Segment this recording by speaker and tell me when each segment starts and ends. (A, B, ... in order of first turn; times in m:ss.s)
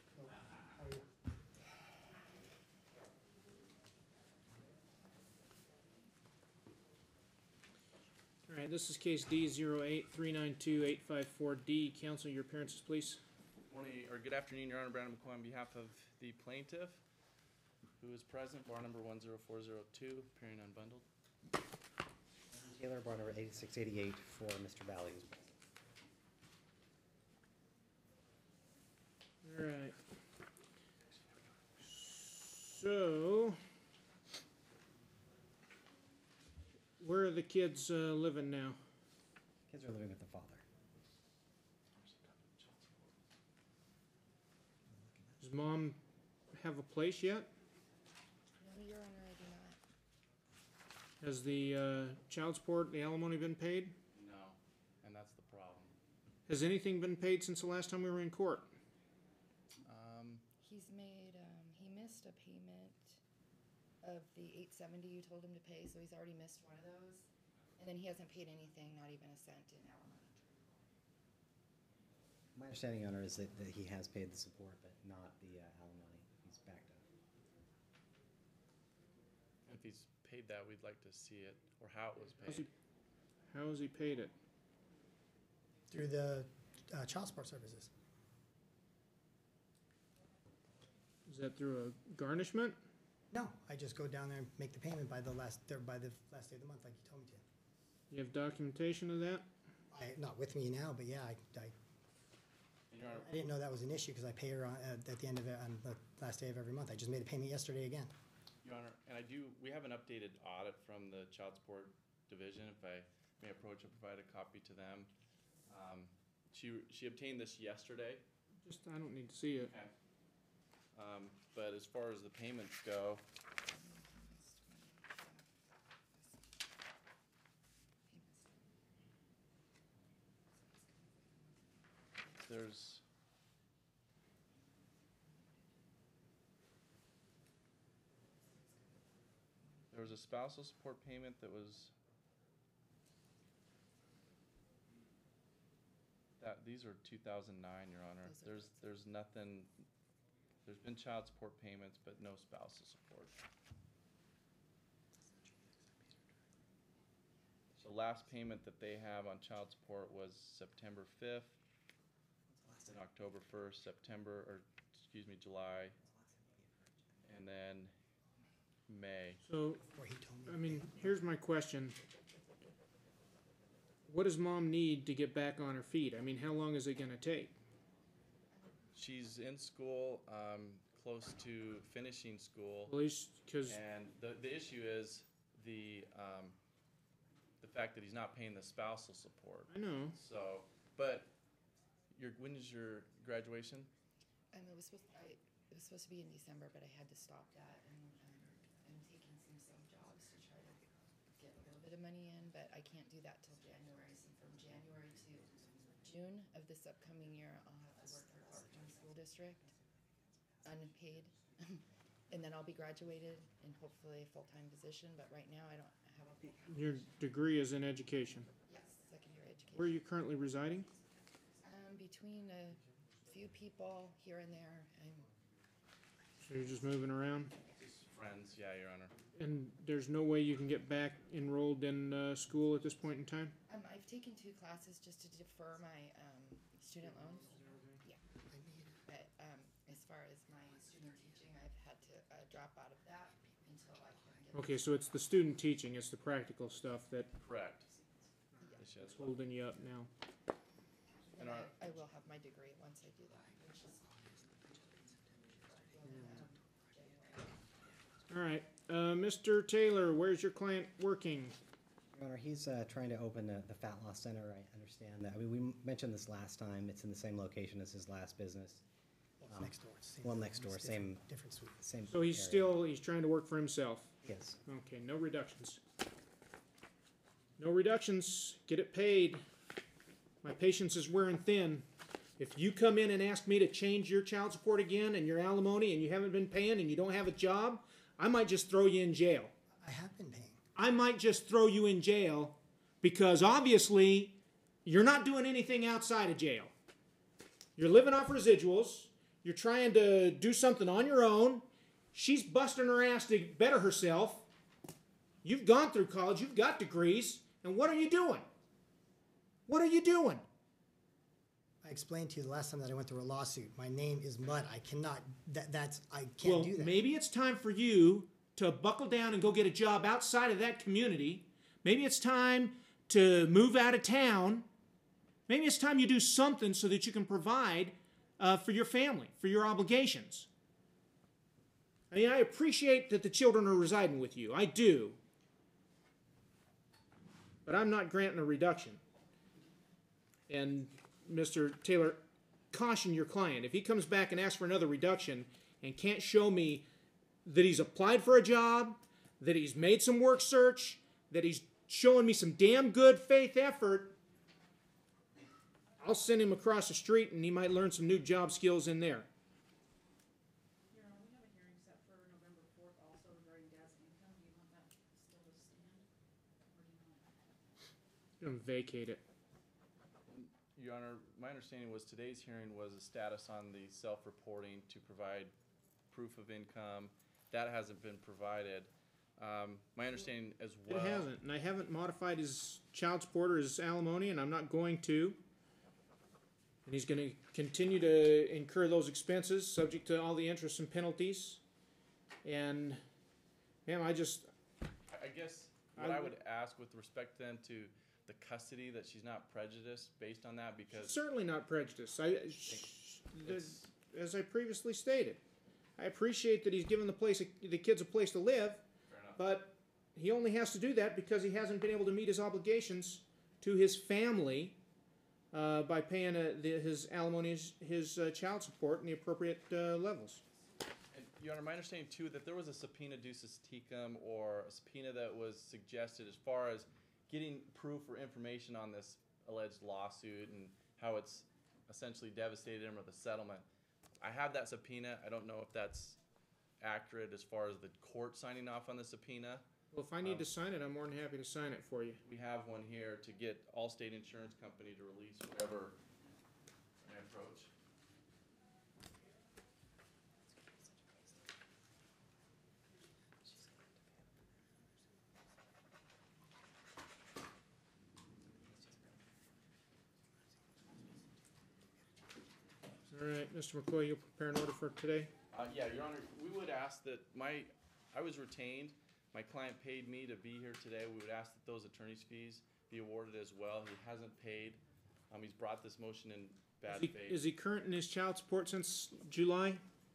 0:00.1-0:01.1 A
0:08.5-0:13.2 B
0:13.7-0:17.0 C
0:18.0-0:21.0 C
0:22.5-0:25.5 D
0:29.4-0:30.0 B
0:31.8-0:33.6 B
0:37.0-0:38.8 B
0:39.7-0:40.6 D
0:42.0-0:43.1 C
0:45.4-0:46.0 B
0:46.5-0:47.5 B
0:48.6-0:49.8 E
0:51.2-0:54.0 B
0:54.1-0:56.0 C
0:56.5-0:58.7 B
0:59.8-1:00.4 C
1:00.6-1:03.2 E
1:04.0-1:07.3 E
1:07.8-1:10.6 E
1:12.6-1:17.0 D
1:19.7-1:22.7 C
1:22.4-1:22.7 B
1:23.5-1:24.3 B
1:25.9-1:27.9 A
1:31.3-1:32.8 B
1:33.3-1:37.4 A
1:38.1-1:39.5 B
1:39.9-1:41.8 A
1:42.9-1:43.3 C
1:43.0-1:48.1 A
1:48.6-1:55.1 C
1:55.7-1:58.2 C
1:58.6-1:59.7 B
1:59.5-1:59.9 C
2:01.0-2:03.2 C
2:03.6-2:05.5 E
2:06.1-2:06.5 E
2:08.1-2:08.7 E
2:10.6-2:11.6 E
2:12.5-2:13.0 C
2:19.9-2:21.9 C
2:26.4-2:29.7 C
2:28.2-2:28.9 E
2:30.7-2:33.4 C
2:37.8-2:41.6 C
2:42.9-2:46.0 C
2:47.3-2:47.9 C
2:48.9-2:49.4 C
2:49.4-2:49.8 B
2:49.9-2:51.0 A
2:50.5-2:52.0 B
2:54.1-2:57.5 B
2:58.9-3:02.9 C
3:02.9-3:03.8 B
3:03.7-3:06.6 C
3:07.6-3:11.3 C
3:09.7-3:10.2 B
3:12.2-3:13.9 C
3:14.5-3:20.8 E
3:21.3-3:25.5 E
3:26.0-3:29.7 E
3:30.6-3:37.1 E
3:36.7-3:38.5 B
3:38.7-3:40.0 E
3:39.8-3:40.9 B
3:41.6-3:45.2 E
3:46.4-3:47.6 B
3:47.8-3:49.1 C
3:49.4-3:53.6 B
3:53.7-3:58.2 E
3:58.5-3:59.0 A
3:59.1-4:04.9 E
4:04.5-4:07.4 B
4:07.4-4:07.9 C
4:08.6-4:08.9 E
4:08.8-4:09.4 C
4:09.1-4:10.1 B
4:11.3-4:15.0 E
4:11.4-4:11.8 C
4:15.6-4:17.5 E
4:18.3-4:21.6 B
4:22.1-4:28.8 D
4:29.4-4:31.8 A
4:29.5-4:31.2 D
4:31.8-4:32.8 D
4:32.1-4:34.1 B
4:34.2-4:34.6 D
4:34.7-4:35.8 B
4:37.6-4:39.4 B
4:40.4-4:41.8 B
4:42.4-4:49.5 B
4:49.8-4:50.6 A
4:50.8-4:56.7 B
4:57.8-5:04.5 B
5:05.4-5:08.5 B
5:09.7-5:10.4 B
5:11.8-5:17.0 A
5:16.4-5:24.7 B
5:25.5-5:30.5 B
5:32.1-5:35.2 B
5:37.6-5:39.0 B
5:40.5-5:42.2 B
5:42.7-5:46.8 B
5:47.4-5:54.2 B
5:56.0-5:59.3 B
6:00.9-6:06.1 F
6:06.7-6:07.3 F
6:08.4-6:09.2 B
6:10.3-6:15.5 C
6:16.1-6:21.3 C
6:20.8-6:25.4 B
6:26.9-6:31.6 B
6:32.4-6:33.0 B
6:33.9-6:34.5 B
6:35.1-6:41.2 C
6:36.0-6:36.4 B
6:40.9-6:45.4 B
6:43.4-6:43.9 C
6:46.0-6:48.8 B
6:49.1-6:49.4 C
6:49.4-6:54.8 B
6:55.5-7:00.4 B
7:01.1-7:13.6 C
7:14.2-7:16.2 C
7:16.8-7:19.6 C
7:19.9-7:22.2 B
7:22.3-7:26.0 C
7:27.0-7:27.7 C
7:43.1-7:45.3 B
7:45.5-7:57.4 C
7:56.9-7:59.8 B